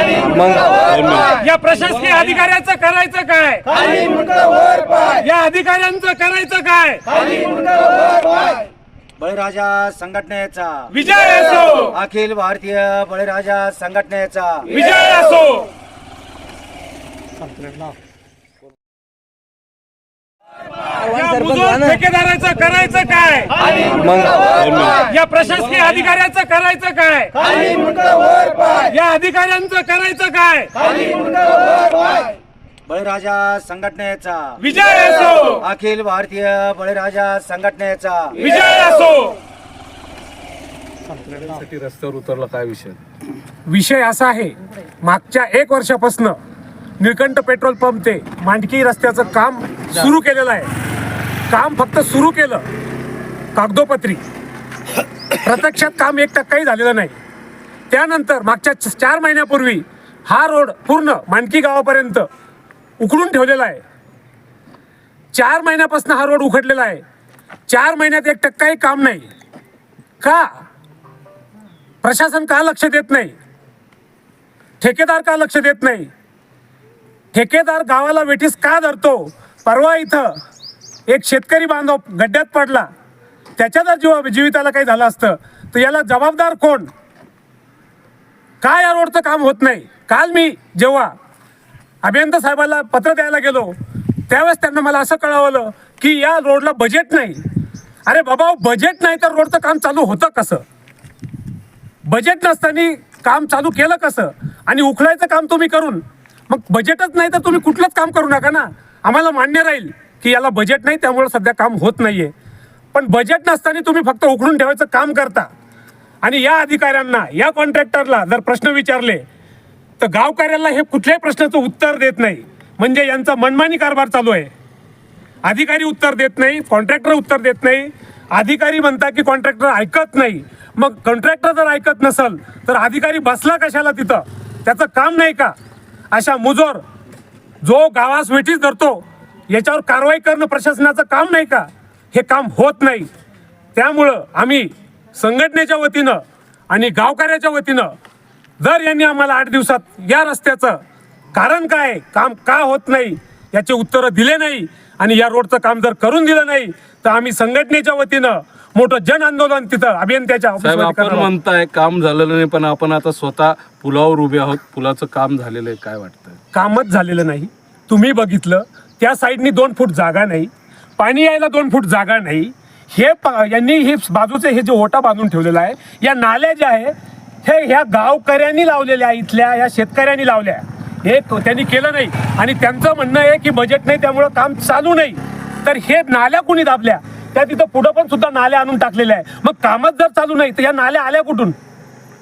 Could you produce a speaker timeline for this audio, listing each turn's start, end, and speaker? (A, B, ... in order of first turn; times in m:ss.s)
0:00.4-0:03.8 A
0:00.8-0:01.4 B
0:05.0-0:07.1 A
0:09.2-0:10.9 C
0:10.9-0:11.9 A
0:11.9-0:14.7 C
0:14.8-0:15.7 A
0:21.0-0:24.5 A
0:24.5-0:25.1 B
0:25.0-0:27.4 A
0:28.7-0:30.8 A
0:32.9-0:34.6 C
0:34.6-0:35.6 A
0:35.6-0:38.4 C
0:38.5-0:39.4 A
0:41.2-0:43.0 B
0:43.7-0:46.4 A
0:47.0-0:50.7 A
0:51.5-0:52.6 A
0:53.6-0:54.2 A
0:55.4-0:57.2 A
0:57.9-1:02.2 A
1:03.0-1:03.8 A
1:05.3-1:07.0 A
1:07.7-1:09.2 A
1:12.0-1:13.3 A
1:14.8-1:16.1 A
1:17.3-1:20.3 A
1:21.1-1:22.9 A
1:23.6-1:26.9 A
1:28.6-1:31.1 A
1:32.0-1:33.7 A
1:34.3-1:37.4 A
1:38.1-1:40.6 A
1:42.1-1:52.3 A
1:52.9-1:55.5 A
1:56.2-1:59.2 A
2:00.0-2:04.5 A
2:05.5-2:15.5 A
2:16.1-2:16.8 A
2:17.6-2:23.1 A
2:23.8-2:27.9 A
2:28.6-2:30.8 A
2:31.4-2:41.3 A
2:40.6-2:46.4 B
2:46.5-2:56.9 A
2:57.4-3:11.6 A